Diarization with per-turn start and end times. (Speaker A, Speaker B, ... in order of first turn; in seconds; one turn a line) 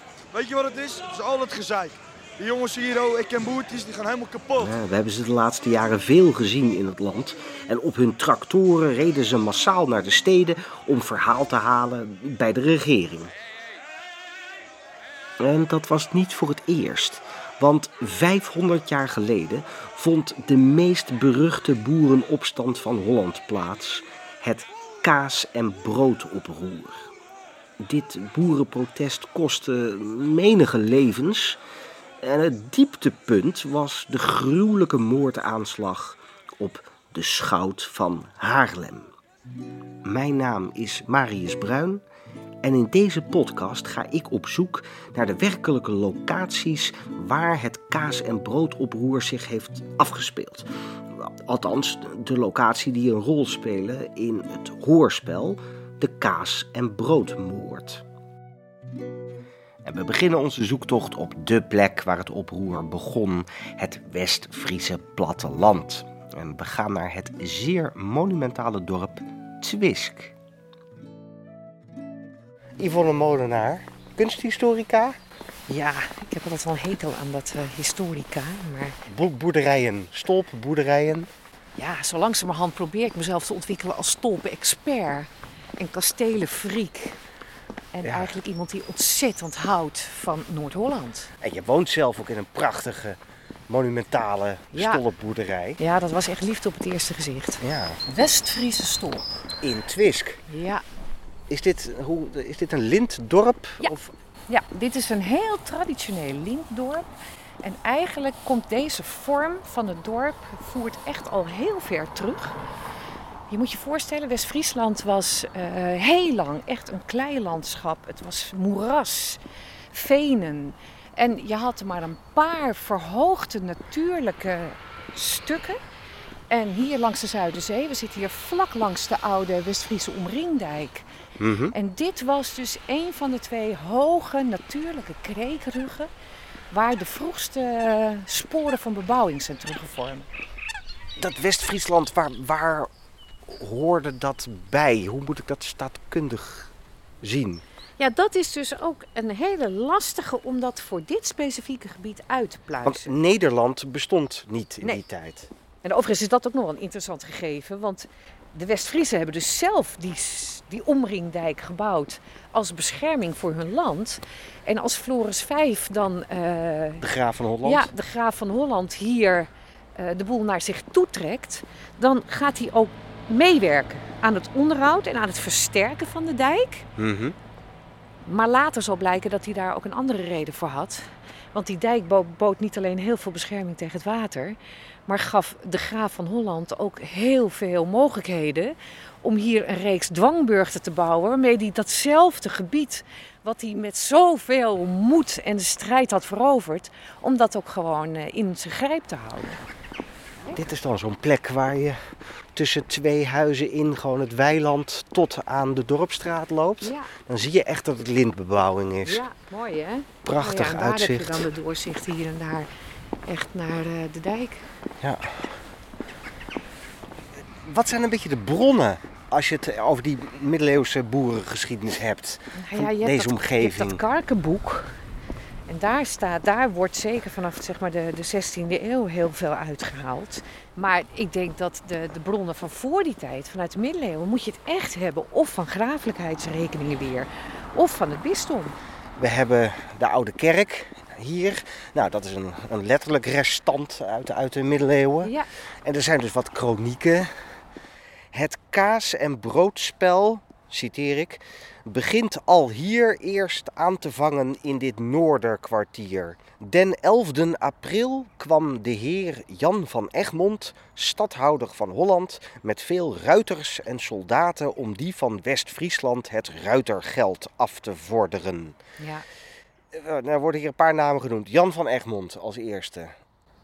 Speaker A: 0.3-4.7
Speaker B: 4.6-13.3
Speaker B: 15.4-27.1
Speaker B: 27.8-31.6
Speaker B: 32.2-39.1
Speaker B: 40.0-42.0
Speaker B: 42.6-58.0
Speaker B: 59.8-70.4
Speaker B: 72.8-75.2
Speaker C: 75.7-79.0
Speaker B: 79.1-81.3
Speaker C: 81.8-87.2
Speaker C: 87.9-91.3
Speaker B: 88.0-88.3
Speaker B: 91.4-95.8
Speaker C: 94.7-95.0
Speaker C: 95.8-99.3
Speaker B: 97.6-98.0
Speaker B: 99.6-100.4
Speaker C: 100.5-100.8
Speaker B: 101.5-104.1
Speaker C: 104.5-107.1
Speaker C: 107.6-112.6
Speaker C: 113.5-119.4
Speaker C: 119.9-125.8
Speaker C: 126.5-131.1
Speaker B: 131.4-131.7
Speaker C: 131.7-136.1
Speaker C: 136.7-140.3
Speaker B: 141.2-142.9
Speaker B: 143.5-147.6
Speaker C: 148.0-153.1
Speaker B: 152.8-155.5
Speaker C: 155.8-167.0
Speaker B: 167.0-167.9
Speaker C: 167.7-176.9
Speaker B: 177.0-177.4
Speaker C: 178.2-199.6
Speaker B: 200.5-209.2
Speaker C: 206.8-207.1
Speaker C: 209.1-212.7
Speaker B: 210.2-211.5
Speaker C: 213.3-214.7
Speaker B: 215.0-215.5
Speaker B: 217.6-224.0
Speaker C: 222.5-225.0
Speaker C: 225.7-238.8
Speaker B: 239.2-245.3
Speaker C: 245.2-245.5
Speaker B: 245.8-247.5
Speaker B: 248.3-268.8
Speaker C: 269.0-269.2
Speaker B: 269.9-273.1